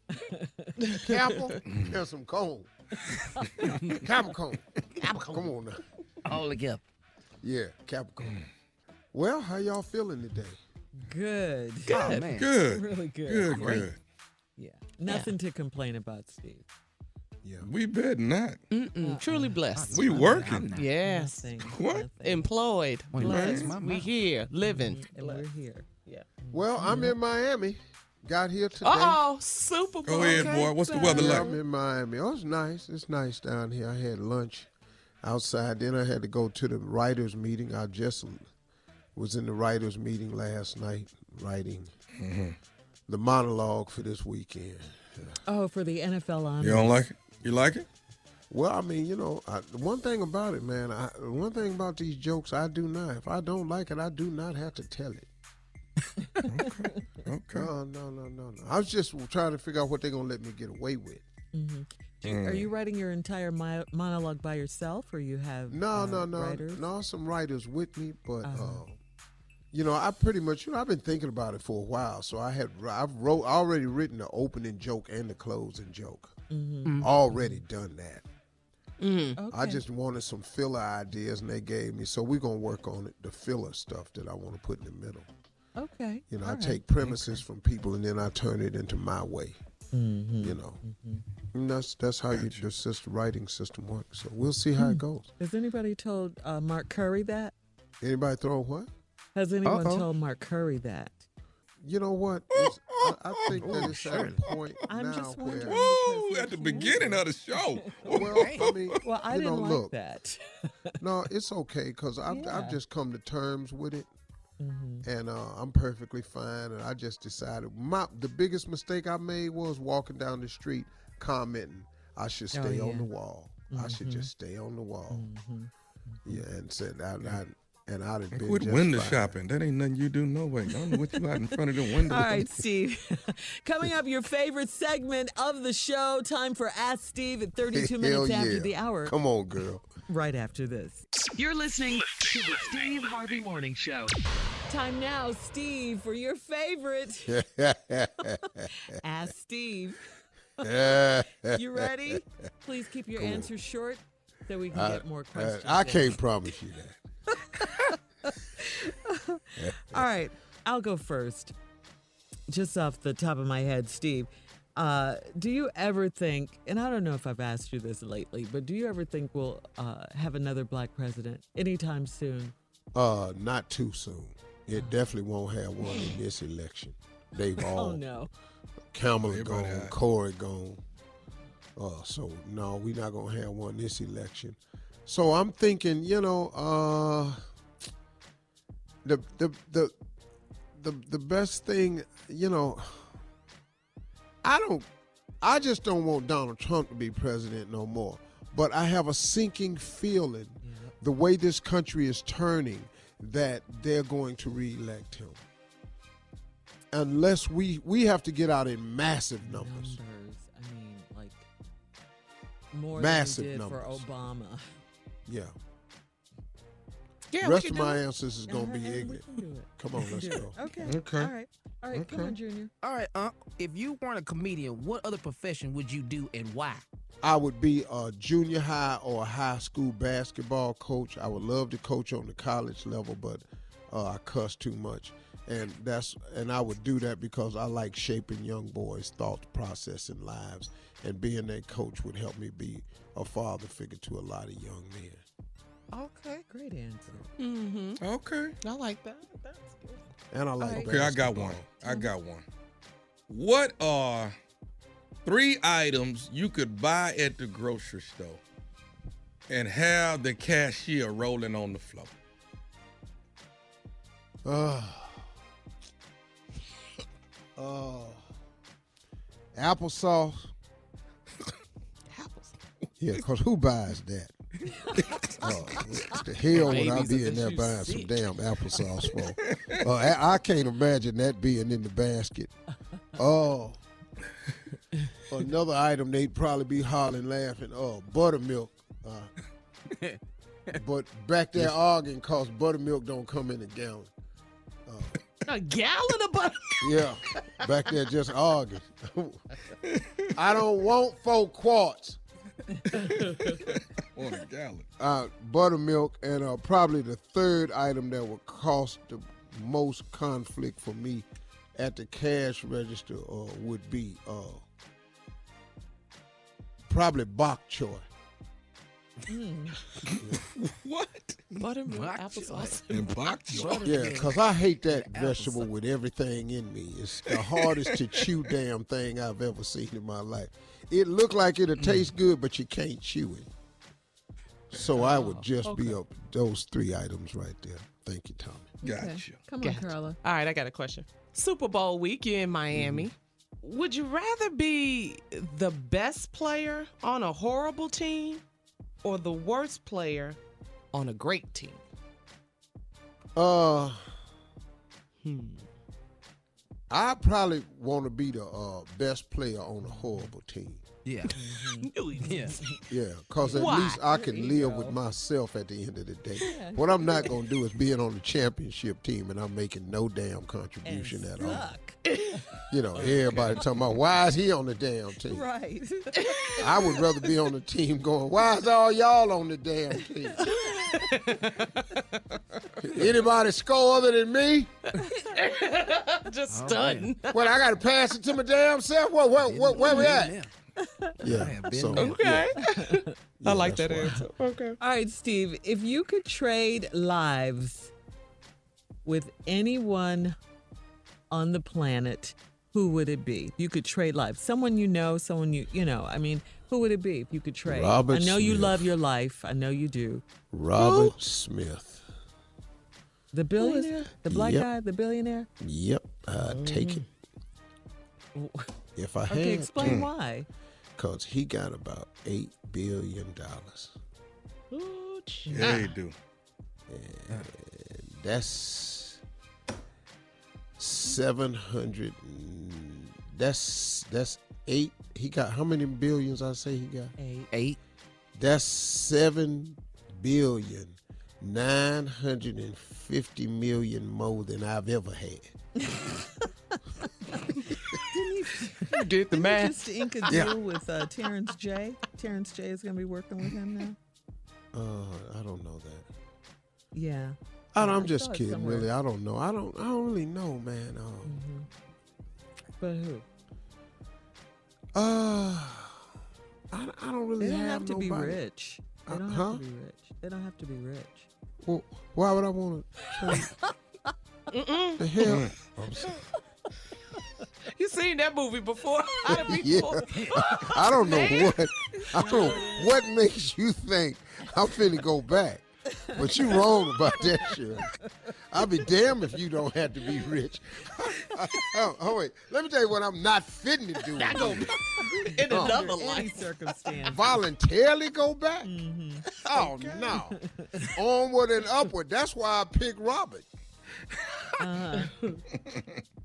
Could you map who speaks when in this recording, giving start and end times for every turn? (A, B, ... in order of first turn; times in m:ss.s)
0:00.2-0:01.2 A
0:01.0-0:02.7 B
0:04.0-0:05.8 B
0:06.2-0:06.8 C
0:07.4-0:08.4 B
0:09.1-0:10.6 B
0:11.0-0:13.9 A
0:11.9-0:12.5 C
0:12.3-0:14.0 D
0:14.6-0:16.6 A
0:17.4-0:17.7 B
0:17.6-0:18.6 D
0:18.7-0:20.0 E
0:19.0-0:22.5 A
0:19.8-0:20.9 C
0:19.9-0:20.7 D
0:20.7-0:21.4 E
0:21.6-0:22.0 D
0:22.2-0:25.4 E
0:23.1-0:24.0 C
0:23.2-0:24.1 A
0:23.3-0:23.7 D
0:24.6-0:25.9 A
0:26.4-0:27.1 A
0:26.5-0:29.2 B
0:28.8-0:31.6 E
0:30.0-0:31.5 D
0:31.0-0:34.7 B
0:35.2-0:38.5 B
0:39.1-0:41.9 B
0:42.2-0:42.6 D
0:43.1-0:45.4 B
0:45.4-0:47.0 A
0:46.6-0:47.8 D
0:48.5-0:55.3 B
0:56.5-0:57.7 D
0:57.5-1:01.2 B
1:01.5-1:06.8 A
1:02.2-1:02.7 D
1:05.7-1:09.0 B
1:08.4-1:08.8 A
1:09.7-1:16.3 B
1:16.5-1:17.6 A
1:17.0-1:18.2 B
1:19.0-1:19.4 E
1:19.4-1:19.8 A
1:19.5-1:25.3 B
1:25.8-1:27.4 A
1:26.3-1:29.6 B
1:29.9-1:31.2 A
1:30.4-1:30.8 B
1:31.5-1:35.3 B
1:32.3-1:32.6 D
1:34.8-1:37.5 A
1:38.0-1:38.9 B
1:39.3-1:41.2 A
1:39.6-1:40.1 C
1:41.8-1:45.8 B
1:42.6-1:43.9 D
1:43.5-1:44.4 C
1:44.9-1:47.2 A
1:45.6-1:49.0 D
1:48.1-1:49.9 B
1:48.2-1:48.7 C
1:49.0-1:50.4 A
1:51.0-1:54.1 B
1:52.3-1:52.8 A
1:54.6-1:55.0 A
1:55.0-2:05.2 B
2:02.5-2:03.1 A
2:03.7-2:04.3 A
2:05.1-2:05.7 A
2:06.2-2:09.4 B
2:08.4-2:12.4 D
2:12.0-2:19.1 A
2:17.7-2:19.8 B
2:20.1-2:21.0 A
2:21.4-2:24.1 F
2:24.7-2:27.4 A
2:27.3-2:28.6 B
2:29.0-2:30.1 A
2:30.6-2:32.2 B
2:31.5-2:36.2 A
2:33.1-2:33.5 B
2:34.7-2:37.0 B
2:37.6-2:41.5 A
2:39.6-2:40.1 B
2:42.5-2:52.5 A
2:52.9-2:58.0 B
2:54.7-2:55.0 A
2:57.6-2:58.3 A
2:58.9-3:00.8 B
2:59.3-2:59.9 D
3:01.8-3:07.4 B
3:09.0-3:09.9 B
3:10.7-3:13.2 B
3:14.4-3:14.9 B
3:15.4-3:25.4 B
3:20.6-3:20.9 A
3:26.9-3:30.0 B
3:29.4-3:31.5 A
3:32.7-3:34.6 A
3:32.9-3:34.0 B
3:35.3-3:35.5 B
3:37.3-3:38.0 E
3:37.4-3:39.2 B
3:38.5-3:42.7 A
3:39.8-3:41.0 B
3:40.8-3:41.3 D
3:41.9-3:42.2 D
3:42.0-3:42.3 B
3:42.8-3:46.8 C
3:47.2-4:05.2 B
4:05.9-4:06.4 E
4:06.5-4:07.3 A
4:07.4-4:08.0 E
4:08.0-4:08.6 D
4:08.6-4:10.0 E
4:10.3-4:11.6 B
4:10.6-4:10.9 A
4:10.8-4:12.4 D
4:11.8-4:12.1 A
4:13.3-4:14.3 D
4:15.2-4:18.4 D
4:19.5-4:22.1 D
4:24.4-4:25.3 B
4:27.6-4:28.3 B
4:29.5-4:30.5 B
4:32.1-4:32.5 E
4:33.0-4:34.3 B
4:35.4-4:42.5 B
4:36.6-4:38.1 E
4:43.2-4:43.8 B
4:45.3-4:49.3 B
4:50.8-4:54.1 B
4:54.9-4:55.2 B
4:55.5-4:56.5 E
4:56.8-4:59.4 B
4:59.9-5:00.3 D
5:00.4-5:02.2 B
5:02.9-5:04.9 D
5:05.0-5:14.6 B
5:16.9-5:18.0 B
5:19.3-5:19.8 A
5:20.4-5:21.4 D
5:21.5-5:23.0 E
5:21.9-5:22.8 C
5:22.9-5:23.9 D
5:23.5-5:24.3 C
5:23.8-5:33.5 B
5:24.9-5:25.7 C
5:31.8-5:32.1 D
5:34.7-5:38.7 B
5:38.8-5:40.2 A
5:38.8-5:39.4 D
5:39.6-5:48.4 E
5:42.8-5:43.0 B
5:49.0-5:50.4 E
5:50.9-5:51.8 E
5:53.4-5:54.2 B
5:56.9-6:00.8 B
5:59.9-6:00.2 A
6:01.0-6:01.3 C
6:01.4-6:02.5 A
6:01.8-6:02.6 E
6:02.2-6:02.6 C
6:02.9-6:11.7 B
6:03.5-6:04.8 E
6:06.5-6:07.3 A
6:10.8-6:12.0 A
6:12.7-6:15.4 B
6:13.3-6:13.6 D
6:15.3-6:16.8 A
6:16.6-6:20.4 B
6:22.8-6:24.7 B
6:25.3-6:27.2 E
6:26.5-6:27.1 C
6:27.3-6:30.4 B
6:29.4-6:30.5 C
6:30.8-6:31.1 A
6:31.2-6:32.3 C
6:31.2-6:32.5 B
6:32.0-6:33.0 E
6:33.4-6:34.2 B
6:33.5-6:34.8 E
6:34.0-6:34.2 A
6:34.8-6:37.9 A
6:39.0-6:40.4 A
6:41.3-6:50.2 A
6:47.6-6:48.9 B
6:50.5-6:52.0 B
6:53.3-6:55.5 A
6:54.2-6:54.7 B
6:55.6-6:57.0 B
6:58.3-6:58.7 A
6:59.0-7:00.0 B
6:59.3-7:00.5 A
7:01.0-7:04.0 B
7:04.7-7:05.7 E
7:05.5-7:05.9 A
7:05.5-7:06.1 D
7:06.9-7:09.2 B
7:10.8-7:17.1 B
7:17.2-7:17.5 A
7:17.5-7:17.8 C
7:18.4-7:25.5 B
7:28.1-7:34.0 A
7:28.9-7:29.8 E
7:30.3-7:30.6 B
7:34.7-7:36.1 B
7:36.9-7:38.9 A
7:37.7-7:41.4 B
7:41.2-7:41.7 A
7:42.8-7:43.2 A
7:44.9-7:46.0 B
7:46.7-7:48.4 B
7:47.4-7:51.3 A
7:49.0-7:49.6 B
7:51.6-7:53.5 B
7:54.5-7:55.0 E
7:55.0-7:56.1 B
7:57.7-8:01.5 E
7:59.5-8:07.9 B
8:02.2-8:02.9 A
8:02.4-8:02.7 E
8:06.0-8:06.7 A
8:08.5-8:14.7 B
8:14.2-8:16.3 E
8:15.1-8:17.3 A
8:15.5-8:15.8 B
8:17.1-8:18.7 B
8:18.6-8:20.4 A
8:19.4-8:20.4 B
8:20.9-8:23.5 B
8:24.6-8:25.1 A